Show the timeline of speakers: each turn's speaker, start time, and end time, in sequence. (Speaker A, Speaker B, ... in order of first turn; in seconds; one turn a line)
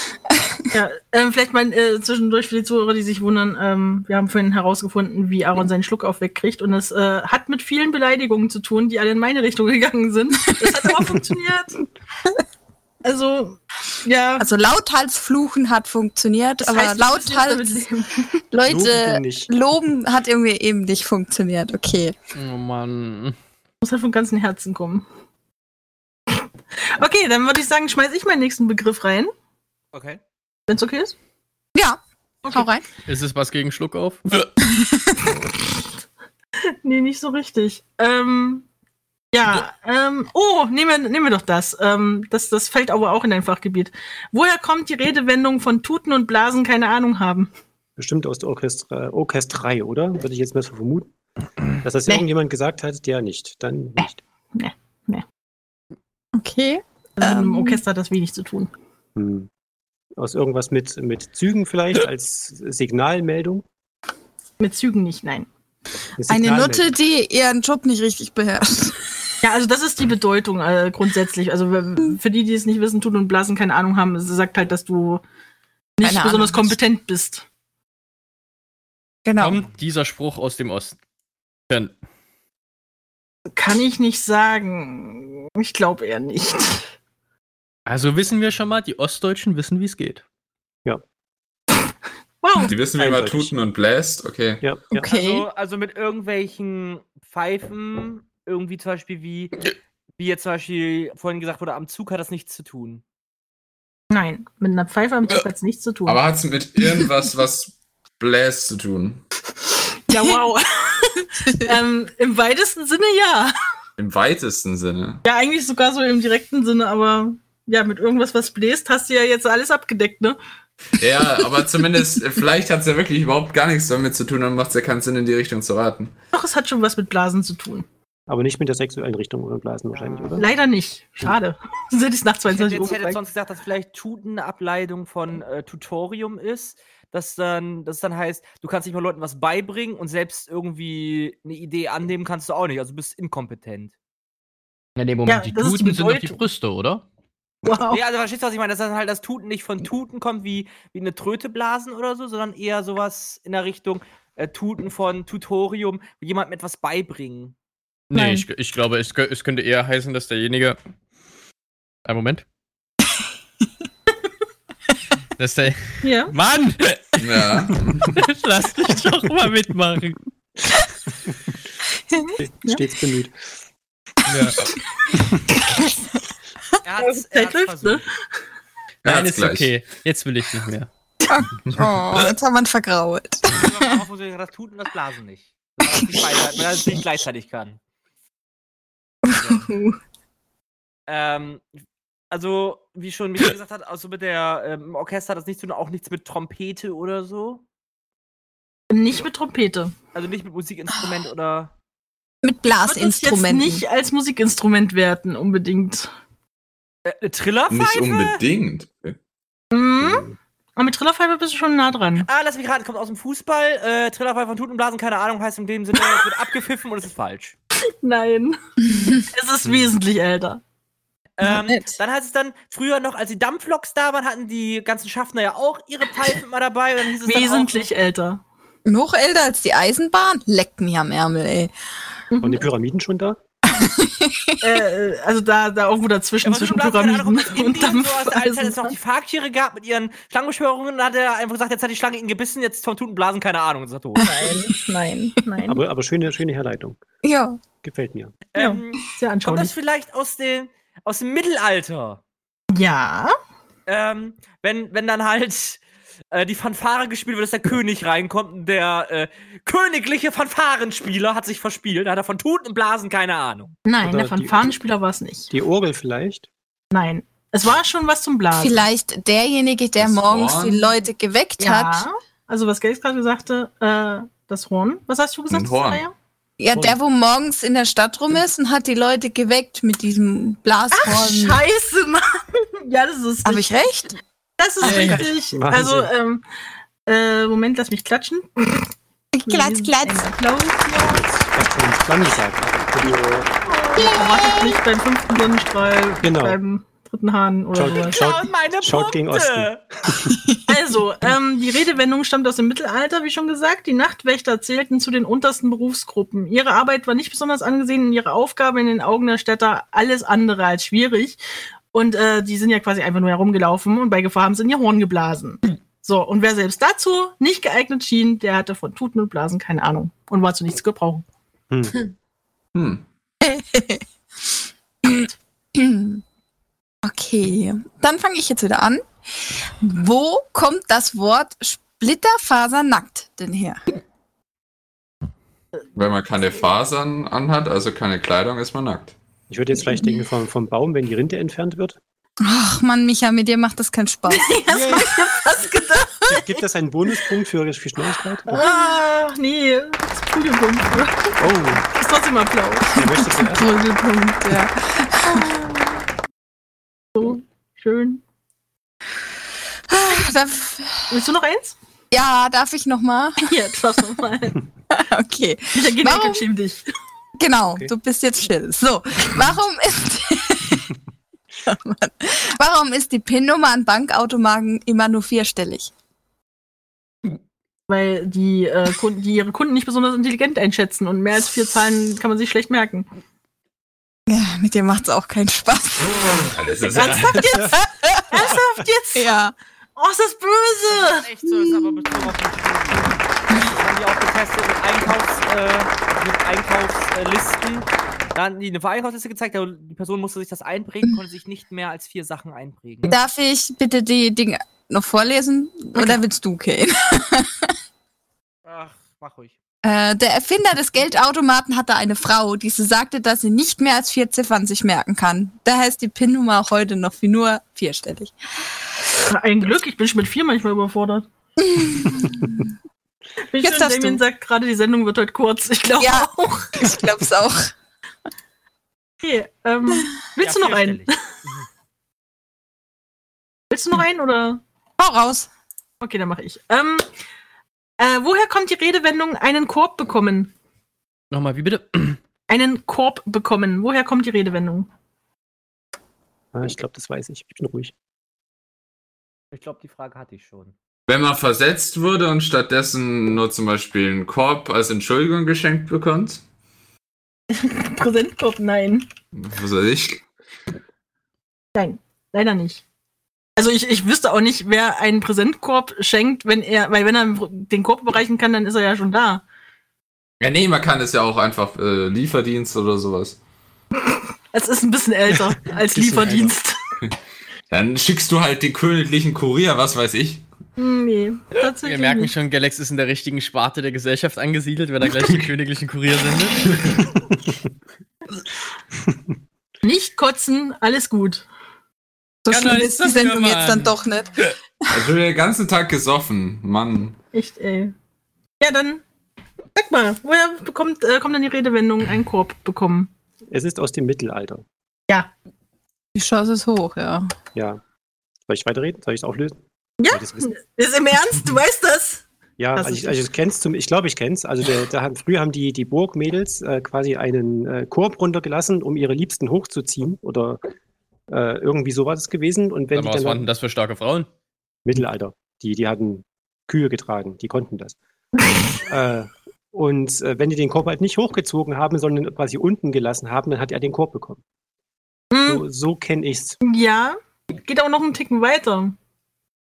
Speaker A: 0.3-0.7
Speaker B: 0.7-11.8
Speaker B: 13.0-14.5
Speaker A: 14.4-17.8
Speaker B: 16.6-18.3
Speaker A: 18.5-22.1
Speaker C: 18.6-19.5
Speaker D: 22.4-23.4
Speaker B: 23.8-25.1
Speaker B: 26.3-29.3
Speaker E: 29.9-30.2
Speaker B: 30.7-31.1
Speaker A: 31.8-32.9
Speaker D: 33.1-34.3
Speaker B: 36.8-38.6
Speaker B: 39.3-47.5
Speaker C: 48.0-51.1
Speaker C: 51.8-54.2
Speaker B: 54.0-55.2
Speaker A: 56.3-57.8
Speaker B: 57.2-58.7
Speaker C: 59.1-59.5
Speaker C: 60.2-63.6
Speaker B: 64.6-65.5
Speaker C: 66.2-66.9
Speaker A: 66.3-69.1
Speaker B: 69.4-75.2
Speaker B: 76.0-77.5
Speaker A: 76.0-76.8
Speaker A: 79.2-79.6
Speaker D: 79.4-81.0
Speaker B: 83.5-86.9
Speaker D: 87.9-90.2
Speaker B: 92.4-92.8
Speaker F: 92.6-94.6
Speaker C: 92.9-93.5
Speaker C: 94.6-95.1
Speaker A: 94.9-95.5
Speaker E: 95.0-99.5
Speaker E: 100.2-103.0
Speaker B: 104.1-106.2
Speaker F: 106.1-109.2
Speaker B: 110.1-113.5
Speaker A: 111.5-111.8
Speaker F: 114.0-115.2
Speaker B: 115.2-120.4
Speaker F: 121.0-126.1
Speaker B: 126.3-127.9
Speaker C: 128.3-130.5
Speaker E: 129.9-130.4
Speaker B: 130.4-133.2
Speaker E: 132.5-143.9
Speaker D: 145.0-147.0
Speaker B: 145.3-146.4
Speaker B: 147.6-148.0
Speaker E: 147.9-157.6
Speaker D: 158.1-160.8
Speaker B: 158.1-158.5
Speaker D: 162.1-162.4
Speaker D: 165.4-167.6
Speaker B: 166.0-166.3
Speaker F: 167.2-168.1
Speaker D: 168.1-170.2
Speaker C: 172.4-173.3
Speaker D: 174.3-174.6
Speaker E: 176.8-178.0
Speaker B: 177.0-178.1
Speaker D: 179.0-180.9
Speaker F: 179.1-179.7
Speaker A: 181.2-183.9
Speaker F: 181.7-182.3
Speaker E: 183.5-187.8
Speaker A: 189.2-190.0
Speaker E: 191.1-191.7
Speaker E: 192.3-197.6
Speaker B: 198.9-199.9
Speaker E: 200.1-201.7
Speaker A: 202.4-203.8
Speaker B: 202.8-206.1
Speaker E: 207.1-208.4
Speaker F: 207.7-209.2
Speaker B: 209.7-210.2
Speaker C: 210.0-210.4
Speaker B: 210.8-212.3
Speaker E: 212.2-217.6
Speaker B: 218.0-218.6
Speaker A: 218.9-219.2
Speaker B: 219.2-220.6
Speaker E: 221.4-227.9
Speaker A: 221.4-221.9
Speaker B: 227.2-228.4
Speaker A: 228.8-231.7
Speaker B: 232.3-232.6
Speaker C: 232.4-233.4
Speaker A: 233.7-234.8
Speaker B: 234.6-238.9
Speaker E: 236.4-244.3
Speaker B: 244.2-245.8
Speaker C: 245.7-247.0
Speaker A: 247.2-247.6
Speaker C: 247.8-248.4
Speaker E: 248.5-252.2
Speaker B: 248.6-249.7
Speaker B: 252.7-253.3
Speaker E: 253.9-255.8
Speaker E: 256.3-263.7
Speaker B: 263.9-265.5
Speaker C: 264.0-264.7
Speaker C: 265.5-266.5
Speaker B: 266.9-268.8
Speaker A: 268.5-272.1
Speaker F: 270.0-270.9
Speaker B: 271.6-276.1
Speaker F: 275.5-276.0
Speaker A: 276.6-281.6
Speaker B: 280.9-283.8
Speaker A: 283.4-284.2
Speaker B: 284.6-286.4
Speaker D: 284.8-285.2
Speaker C: 284.8-286.1
Speaker B: 287.1-288.9
Speaker A: 289.3-290.3
Speaker B: 289.5-291.2
Speaker C: 291.0-293.5
Speaker B: 293.7-298.2
Speaker A: 294.0-294.8
Speaker C: 296.2-296.6
Speaker C: 297.7-300.2
Speaker E: 297.9-299.8
Speaker A: 300.3-300.6
Speaker B: 300.7-311.4
Speaker B: 311.9-321.2
Speaker C: 321.7-322.0
Speaker F: 322.7-323.0
Speaker A: 323.4-324.1
Speaker A: 325.0-326.2
Speaker A: 327.0-333.8
Speaker F: 336.0-339.2
Speaker C: 339.5-342.0
Speaker A: 342.4-344.6
Speaker B: 344.3-347.3
Speaker C: 344.7-345.1
Speaker C: 346.3-348.7
Speaker B: 348.5-353.1
Speaker C: 351.4-351.9
Speaker C: 352.9-353.7
Speaker A: 353.0-355.5
Speaker B: 355.3-356.0
Speaker B: 357.1-358.2
Speaker A: 359.9-361.1
Speaker B: 361.1-361.8
Speaker A: 362.1-363.5
Speaker B: 363.4-364.6
Speaker A: 364.9-366.5
Speaker B: 365.8-366.9
Speaker A: 367.4-370.9
Speaker C: 367.7-367.9
Speaker A: 371.7-375.9
Speaker B: 377.9-383.1
Speaker A: 384.3-386.3
Speaker F: 386.5-387.5
Speaker B: 386.9-387.8
Speaker C: 387.4-387.8
Speaker A: 387.8-388.5
Speaker B: 388.3-389.3
Speaker A: 389.1-389.5
Speaker B: 390.0-391.3
Speaker E: 390.9-403.1
Speaker A: 391.5-392.3
Speaker A: 403.1-407.7
Speaker E: 408.7-409.5
Speaker A: 409.8-418.3
Speaker B: 419.3-421.3
Speaker A: 421.6-422.7
Speaker B: 423.5-426.7
Speaker A: 423.6-424.2
Speaker A: 426.0-427.7
Speaker B: 429.2-431.1
Speaker E: 430.4-431.7
Speaker B: 433.7-434.6
Speaker A: 435.0-435.5
Speaker B: 436.0-437.1
Speaker B: 438.0-440.5
Speaker D: 441.3-442.2
Speaker B: 442.5-444.9
Speaker C: 446.5-447.9
Speaker E: 449.5-450.7
Speaker F: 451.1-456.4
Speaker B: 457.5-459.1
Speaker F: 459.4-460.2
Speaker B: 461.8-462.8
Speaker B: 463.6-469.4
Speaker F: 470.4-473.4
Speaker B: 474.5-476.8
Speaker C: 475.5-476.5
Speaker F: 477.7-480.4
Speaker B: 480.8-482.3
Speaker D: 481.8-486.7
Speaker B: 489.8-491.5
Speaker A: 492.5-494.4
Speaker D: 492.5-493.9
Speaker F: 494.9-497.2
Speaker B: 497.3-497.9
Speaker B: 498.6-499.0
Speaker B: 499.8-503.1
Speaker C: 503.5-504.6
Speaker A: 506.1-507.3
Speaker C: 507.6-507.8
Speaker C: 508.5-510.5
Speaker B: 510.0-512.2
Speaker C: 512.6-520.6
Speaker B: 512.8-513.2
Speaker C: 521.3-523.5
Speaker D: 523.0-524.3
Speaker C: 524.9-528.0
Speaker C: 528.9-534.4
Speaker B: 535.3-535.6
Speaker C: 535.5-536.6
Speaker B: 536.6-539.0